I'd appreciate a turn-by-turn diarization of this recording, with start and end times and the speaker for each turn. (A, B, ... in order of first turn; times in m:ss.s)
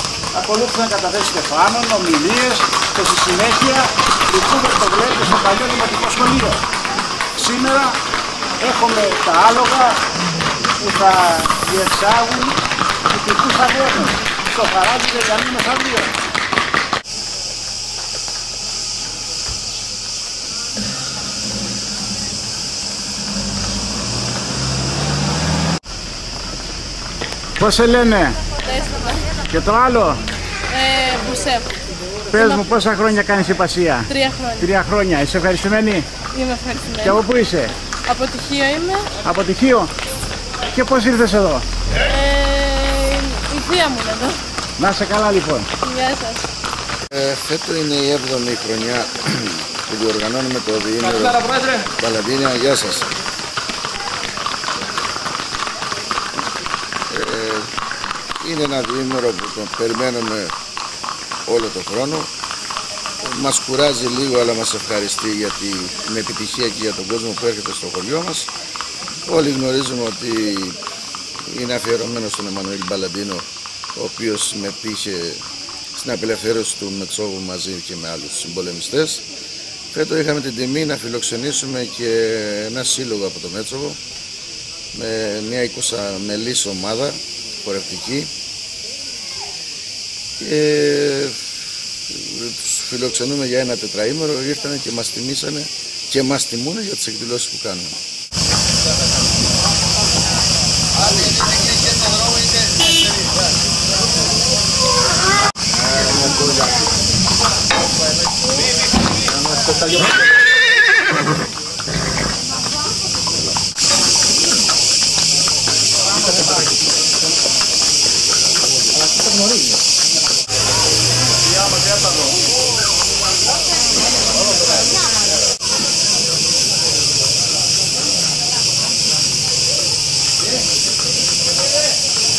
0:00.3-0:06.6 A
0:07.3-0:08.0 A
0:08.6-0:10.0 A
0:10.7-0:16.1 A
0:27.6-0:28.4 A
0:28.6-0:29.3 B
0:29.5-0:30.2 A
0:30.7-0:31.7 B
0:32.3-0:36.1 A
0:32.3-0:32.6 B
0:34.1-0:34.6 B
0:36.3-0:37.2 B
0:37.0-0:37.7 A
0:38.1-0:39.1 B
0:39.2-0:39.9 A
0:40.6-0:41.6 A
0:42.0-0:44.4 B
0:44.8-0:45.7 A
0:45.8-0:46.4 B
0:47.1-0:53.1 C
0:57.1-0:57.7 C
0:58.4-1:00.6 C
1:01.4-1:02.3 C
1:03.2-1:08.5 C
1:09.2-1:10.8 C
1:11.4-1:19.2 C
1:19.9-1:24.0 C
1:24.9-1:28.3 C
1:30.4-1:38.0 C
1:41.0-1:42.1 C
1:45.7-1:46.8 C
1:49.6-1:50.0 C